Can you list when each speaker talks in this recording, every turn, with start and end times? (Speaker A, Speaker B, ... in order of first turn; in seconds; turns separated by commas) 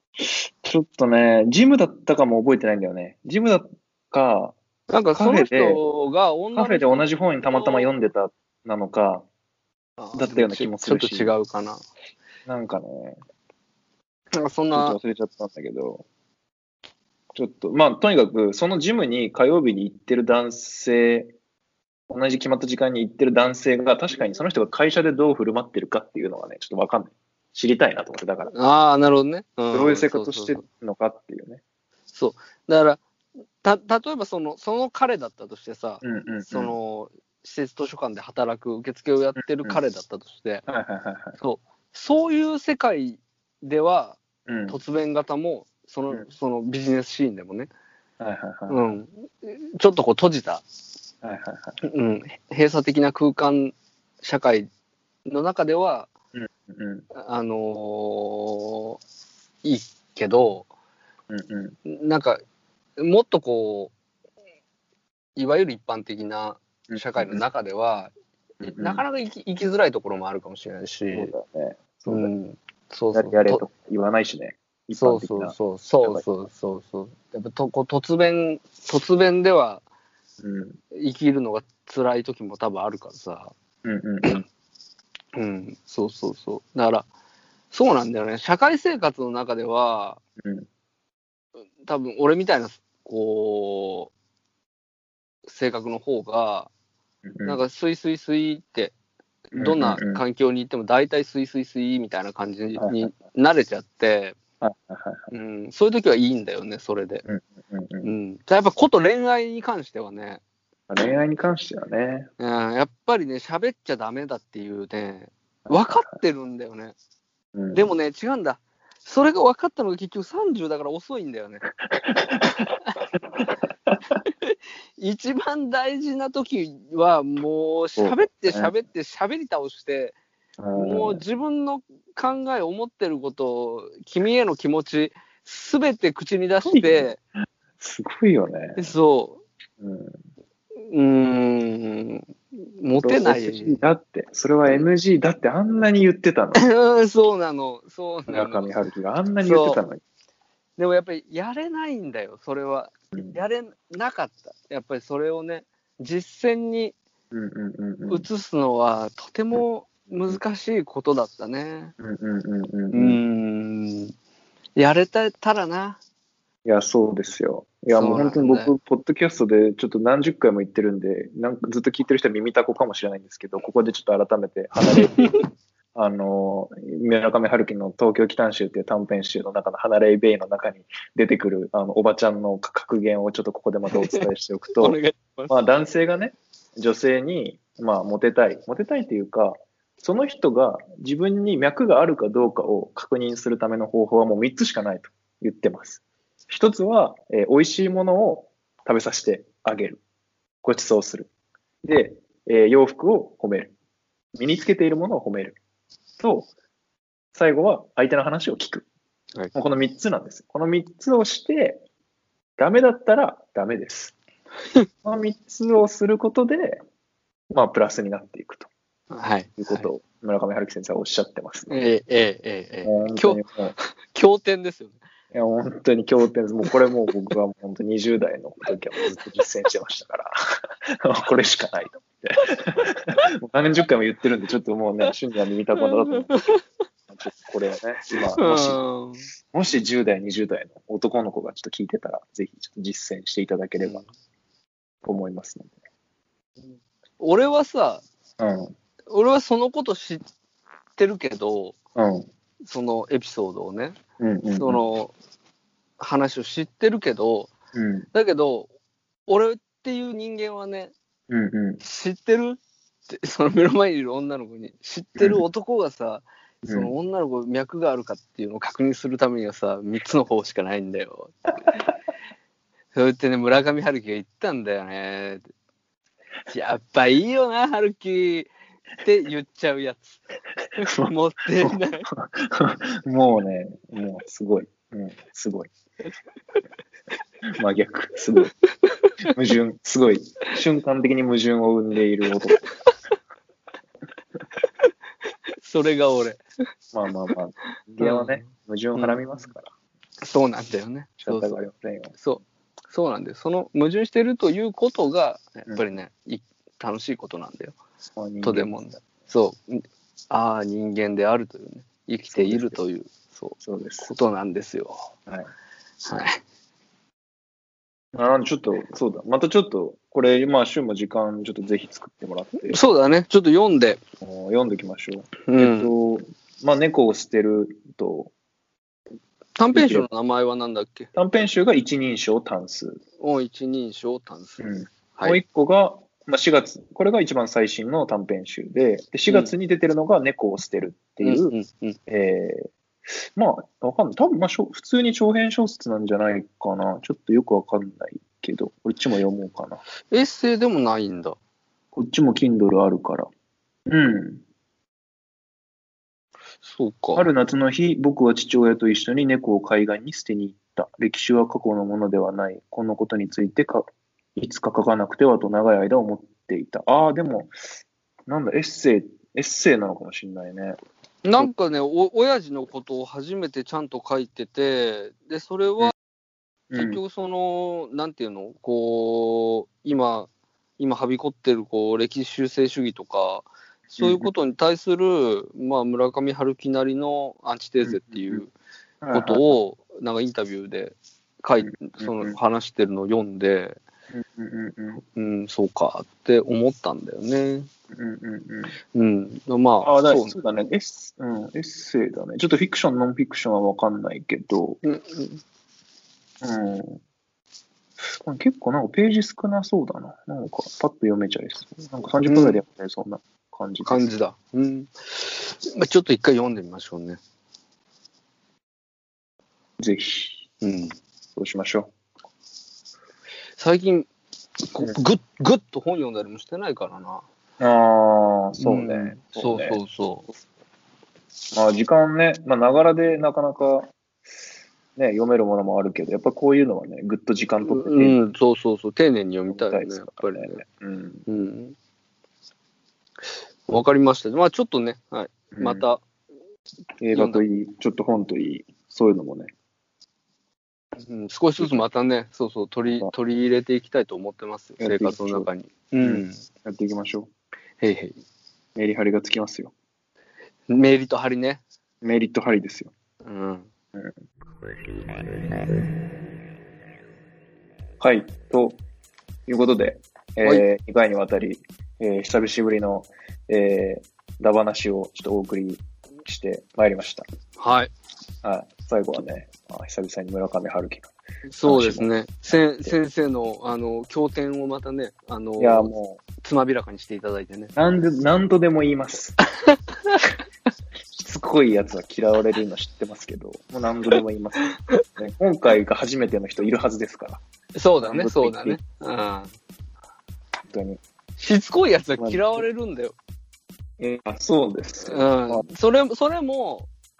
Speaker A: 0.2-4.5, Speaker B: 4.9-7.9, Speaker A: 5.1-5.8, Speaker A: 6.5-9.2, Speaker B: 10.0-11.8, Speaker A: 10.1-11.3, Speaker A: 12.4-13.2, Speaker B: 14.3-15.0, Speaker A: 14.7-16.0, Speaker A: 17.3-21.3, Speaker A: 22.1-28.5, Speaker B: 28.5-30.6, Speaker A: 29.7-31.6, Speaker B: 32.1-33.0, Speaker B: 33.6-40.6, Speaker A: 36.0-36.8, Speaker A: 40.7-41.4, Speaker B: 41.4-47.7, Speaker A: 44.5-44.8, Speaker A: 48.2-48.8, Speaker B: 48.7-50.6, Speaker A: 51.2-51.8, Speaker B: 51.8-54.7, Speaker B: 55.2-56.1, Speaker A: 56.3-57.1, Speaker B: 57.1-59.0, Speaker B: 59.6-60.7, Speaker A: 61.3-61.8, Speaker B: 61.9-62.4, Speaker B: 63.0-63.9, Speaker B: 65.3-71.3, Speaker A: 66.9-67.4, Speaker A: 68.6-69.0, Speaker A: 71.1-72.3, Speaker B: 72.1-73.6, Speaker A: 73.1-76.3, Speaker B: 75.0-79.8, Speaker A: 80.4-80.8, Speaker B: 80.9-83.5, Speaker A: 83.8-84.4, Speaker B: 85.3-87.1, Speaker B: 87.7-90.2, Speaker A: 90.4-90.7, Speaker B: 91.8-94.1, Speaker B: 95.5-96.7, Speaker A: 97.2-97.6, Speaker B: 97.4-98.9, Speaker B: 99.5-104.4, Speaker A: 99.5-100.2, Speaker A: 102.8-103.1, Speaker A: 104.6-105.3, Speaker B: 105.3-107.2, Speaker A: 107.2-108.1, Speaker B: 108.0-110.4, Speaker A: 110.9-112.3, Speaker B: 112.4-116.9, Speaker A: 115.7-116.1, Speaker A: 117.5-117.8, Speaker B: 117.7-121.6, Speaker A: 122.0-122.7, Speaker A: 123.4-124.0, Speaker B: 124.4-130.1, Speaker A: 128.0-128.7, Speaker A: 130.6-131.2, Speaker B: 130.7-137.2, Speaker A: 136.6-137.1, Speaker A: 137.8-138.9, Speaker B: 138.8-139.4, Speaker A: 139.8-140.2, Speaker B: 140.9-143.8, Speaker A: 143.0-146.6, Speaker B: 146.6-148.7, Speaker A: 148.3-150.0, Speaker B: 149.4-149.8, Speaker B: 150.8-156.9, Speaker A: 157.3-158.3, Speaker B: 158.1-161.9, Speaker A: 162.0-163.2, Speaker B: 162.9-164.1, Speaker B: 164.8-166.0, Speaker A: 166.6-175.3, Speaker B: 167.9-168.7, Speaker B: 174.8-175.4, Speaker A: 175.9-185.0, Speaker B: 183.9-184.3, Speaker B: 184.8-185.5, Speaker A: 185.5-200.0, Speaker A: 200.6-201.3, Speaker A: 201.8-203.7, Speaker A: 204.3-205.6, Speaker A: 206.2-206.5, Speaker A: 207.3-208.8, Speaker A: 209.5-211.8, Speaker A: 212.6-214.1, Speaker A: 215.0-216.8, Speaker A: 217.5-218.7, Speaker B: 219.1-219.9, Speaker A: 219.6-221.8, Speaker B: 221.7-225.0, Speaker A: 222.8-223.7, Speaker A: 225.3-230.3, Speaker A: 231.0-236.3, Speaker B: 235.8-236.6, Speaker A: 237.1-238.8, Speaker B: 238.3-239.2, Speaker A: 239.5-244.0, Speaker B: 243.8-244.1, Speaker A: 245.0-245.7, Speaker B: 247.2-248.0, Speaker A: 248.4-248.7, Speaker B: 249.1-250.2, Speaker B: 251.0-251.8, Speaker A: 251.9-252.3, Speaker B: 252.6-253.9, Speaker A: 254.2-254.8, Speaker B: 254.5-255.1, Speaker B: 256.0-257.5, Speaker A: 257.7-258.1, Speaker B: 258.1-258.7, Speaker B: 259.3-260.9, Speaker A: 261.3-261.8, Speaker B: 261.8-271.5, Speaker A: 266.6-266.9, Speaker B: 272.9-275.5, Speaker B: 276.5-278.5, Speaker B: 279.0-280.2, Speaker B: 280.8-282.1, Speaker A: 280.8-285.7, Speaker A: 287.5-288.5, Speaker B: 288.8-289.3, Speaker A: 289.3-292.6, Speaker B: 295.6-296.4, Speaker A: 296.9-299.7, Speaker B: 298.0-299.2, Speaker B: 300.2-301.6, Speaker A: 301.2-302.1, Speaker B: 302.2-307.8, Speaker A: 308.2-309.0, Speaker B: 308.4-315.1, Speaker A: 312.3-312.8, Speaker A: 313.6-314.1, Speaker B: 316.0-316.4, Speaker A: 318.1-322.8, Speaker B: 322.7-324.0, Speaker A: 324.2-328.3, Speaker B: 325.5-325.9, Speaker B: 329.6-331.1, Speaker A: 329.7-330.1, Speaker A: 331.1-333.0, Speaker B: 333.2-335.4, Speaker A: 334.6-341.5, Speaker B: 339.3-339.5, Speaker B: 341.2-342.0, Speaker A: 342.1-342.7, Speaker A: 343.3-349.8, Speaker B: 350.1-351.4, Speaker A: 351.9-353.3, Speaker A: 353.9-354.4, Speaker B: 356.6-357.2, Speaker A: 357.1-367.5, Speaker A: 368.3-370.8, Speaker B: 371.2-375.9, Speaker A: 376.7-377.0, Speaker B: 376.7-388.5, Speaker A: 383.9-384.3, Speaker A: 387.8-388.4, Speaker A: 389.0-389.5, Speaker B: 389.1-393.8, Speaker A: 391.6-392.4, Speaker A: 394.1-395.0, Speaker B: 395.0-397.7, Speaker A: 397.9-398.7, Speaker B: 398.9-400.4, Speaker A: 399.8-404.8, Speaker B: 404.8-405.4, Speaker A: 406.4-407.0, Speaker A: 408.0-414.1, Speaker B: 412.2-412.6, Speaker B: 413.8-417.2, Speaker A: 419.8-420.4, Speaker B: 420.6-420.9, Speaker A: 421.4-421.9, Speaker B: 423.6-424.1, Speaker B: 424.7-427.2, Speaker A: 427.6-429.8, Speaker B: 428.6-430.3, Speaker A: 431.5-433.9, Speaker A: 434.9-438.2, Speaker B: 437.6-440.6, Speaker A: 439.5-441.2, Speaker B: 441.3-441.8, Speaker B: 443.6-446.0, Speaker A: 445.5-445.9, Speaker A: 447.0-449.5, Speaker B: 447.1-447.4, Speaker B: 451.0-456.4, Speaker A: 452.9-453.1, Speaker A: 454.8-455.5, Speaker A: 456.0-457.3, Speaker B: 457.8-458.2, Speaker A: 458.8-459.7, Speaker B: 460.7-461.6, Speaker A: 462.0-462.9, Speaker B: 463.2-463.7, Speaker A: 468.0-468.8, Speaker A: 469.5-477.2, Speaker B: 477.6-477.9, Speaker A: 478.4-481.1, Speaker B: 481.5-487.7, Speaker A: 481.6-482.9, Speaker A: 485.6-486.2, Speaker A: 487.8-489.4, Speaker B: 489.7-490.2, Speaker A: 491.1-497.4, Speaker B: 497.7-499.5, Speaker A: 498.0-498.8, Speaker A: 500.7-501.0, Speaker B: 501.4-503.1, Speaker A: 502.2-502.6, Speaker A: 504.0-505.6, Speaker B: 505.1-506.9